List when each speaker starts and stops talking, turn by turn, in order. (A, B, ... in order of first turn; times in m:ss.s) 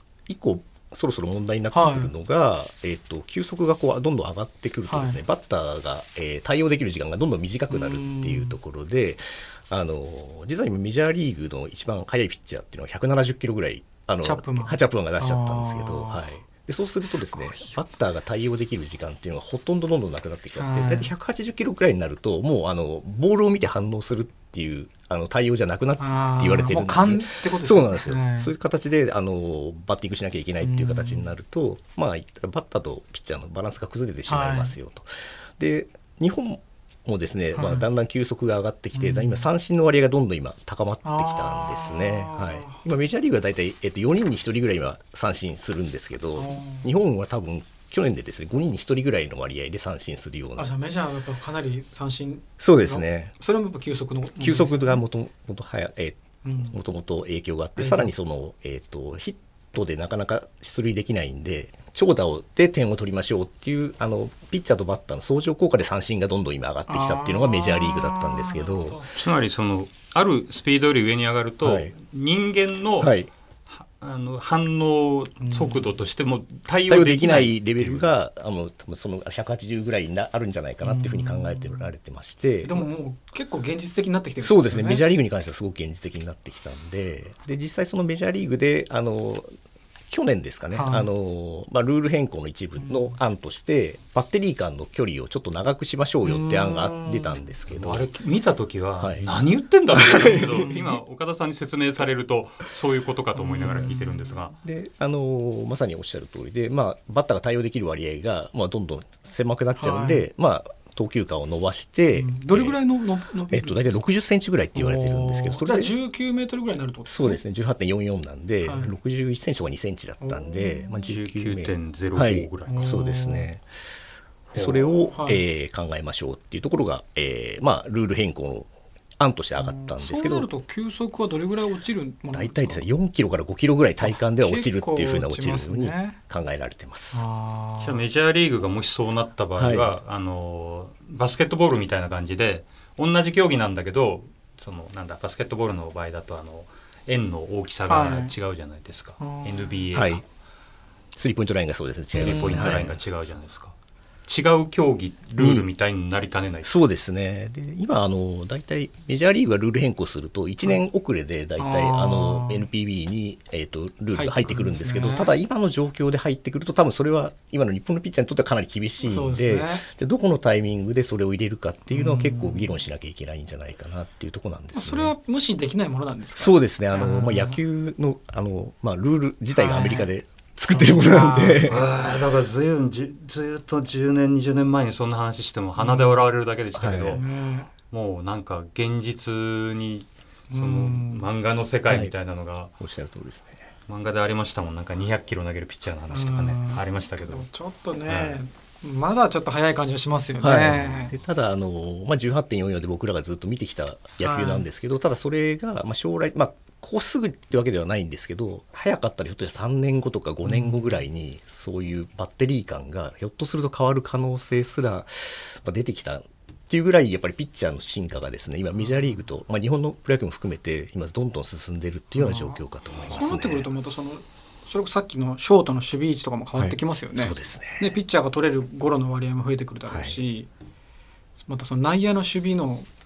0:00.3-0:50.7 A
0:01.7-0:02.1 B
0:04.9-0:05.2 B
0:07.7-0:08.6 B
0:14.2-0:16.3 B
0:17.0-0:17.8 B
0:20.5-0:21.1 B
0:26.0-0:28.5 B
0:30.6-0:31.3 B
0:34.3-0:34.8 B
0:37.5-0:37.8 B
0:38.9-0:39.5 B
0:41.0-0:42.8 B
0:46.4-0:46.9 B
0:50.6-0:55.0 B
0:52.6-0:53.3 A
0:54.4-1:09.0 A
0:56.4-0:56.7 B
0:57.8-0:58.1 B
1:06.9-1:09.1 B
1:09.1-1:13.1 C
1:11.6-1:11.9 A
1:13.0-1:13.3 A
1:13.7-1:18.1 C
1:15.4-1:15.9 B
1:16.9-1:22.9 A
1:20.8-1:21.9 B
1:22.6-1:25.0 B
1:24.4-1:29.5 A
1:30.1-1:38.1 A
1:30.7-1:31.1 B
1:32.8-1:33.2 B
1:36.2-1:37.4 B
1:37.7-1:44.5 C
1:39.0-1:39.3 A
1:40.0-1:40.6 A
1:40.2-1:41.0 B
1:43.3-1:44.6 B
1:44.6-1:52.8 A
1:49.8-1:50.2 B
1:52.1-1:54.0 B
1:53.5-1:55.9 A
1:54.7-1:57.4 B
1:57.0-2:03.6 A
1:58.6-1:59.0 B
2:00.2-2:01.0 B
2:01.1-2:03.0 C
2:02.6-2:03.5 B
2:04.5-2:04.9 C
2:04.5-2:10.5 A
2:05.0-2:05.4 B
2:09.6-2:12.8 B
2:12.3-2:17.2 A
2:14.0-2:16.2 B
2:17.1-2:18.0 B
2:17.8-2:30.2 C
2:19.6-2:19.9 A
2:27.9-2:28.3 B
2:29.2-2:29.8 B
2:29.9-2:30.2 A
2:31.1-2:33.0 A
2:32.1-2:33.7 C
2:32.2-2:32.9 B
2:34.3-2:36.7 C
2:35.4-2:35.7 A
2:36.6-2:55.1 A
2:41.6-2:42.7 B
2:44.1-2:45.3 B
2:49.0-2:49.8 B
2:51.9-2:52.8 B
2:54.7-2:57.6 B
2:56.4-3:01.8 A
2:59.5-3:00.1 B
3:00.7-3:01.8 B
3:01.7-3:07.2 C
3:05.8-3:06.3 B
3:06.7-3:07.2 A
3:07.0-3:07.7 B
3:07.9-3:12.7 C
3:10.5-3:11.3 B
3:11.9-3:12.1 A
3:12.8-3:13.7 A
3:13.9-3:17.5 C
3:16.1-3:21.1 B
3:18.1-3:18.4 C
3:20.4-3:43.7 A
3:24.2-3:24.6 B
3:30.4-3:31.0 B
3:42.1-3:50.5 B
3:46.6-3:48.0 A
3:49.9-3:50.2 A
3:51.5-3:52.9 B